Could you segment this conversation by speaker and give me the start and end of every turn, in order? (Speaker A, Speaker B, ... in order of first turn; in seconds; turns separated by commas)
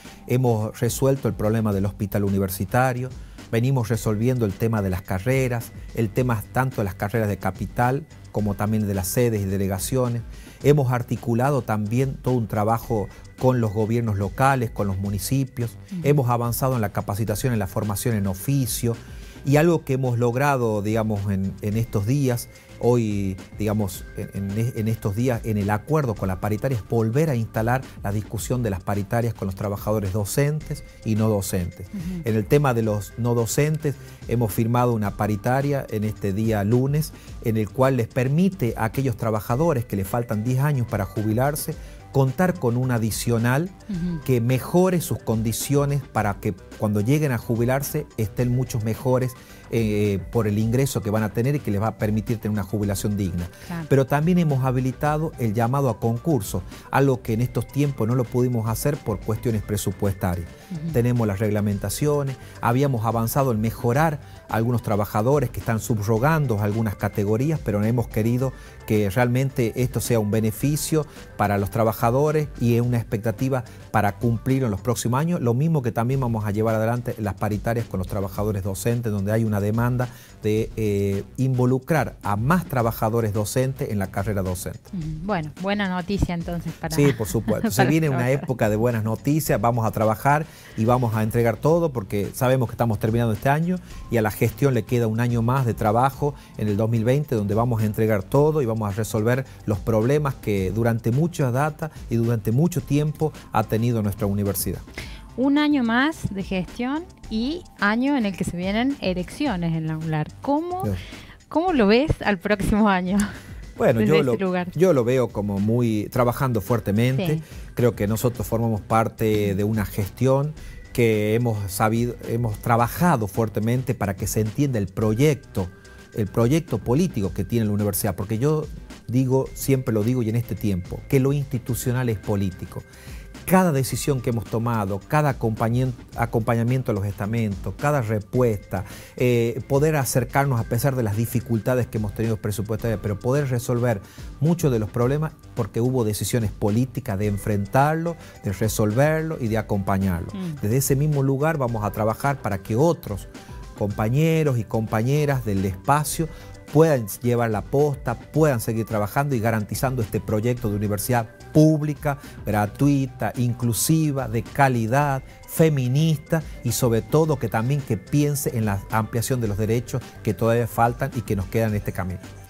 Speaker A: 0.3-43.7, Speaker B: 31.9-32.2, Speaker B: 43.9-44.2, Speaker A: 44.2-84.8, Speaker B: 60.7-61.0, Speaker B: 84.9-88.5, Speaker A: 86.9-104.8, Speaker B: 105.4-110.9, Speaker B: 111.5-113.3, Speaker A: 113.8-132.9, Speaker B: 114.0-114.7, Speaker B: 117.2-117.4, Speaker A: 133.5-172.2, Speaker B: 150.3-150.6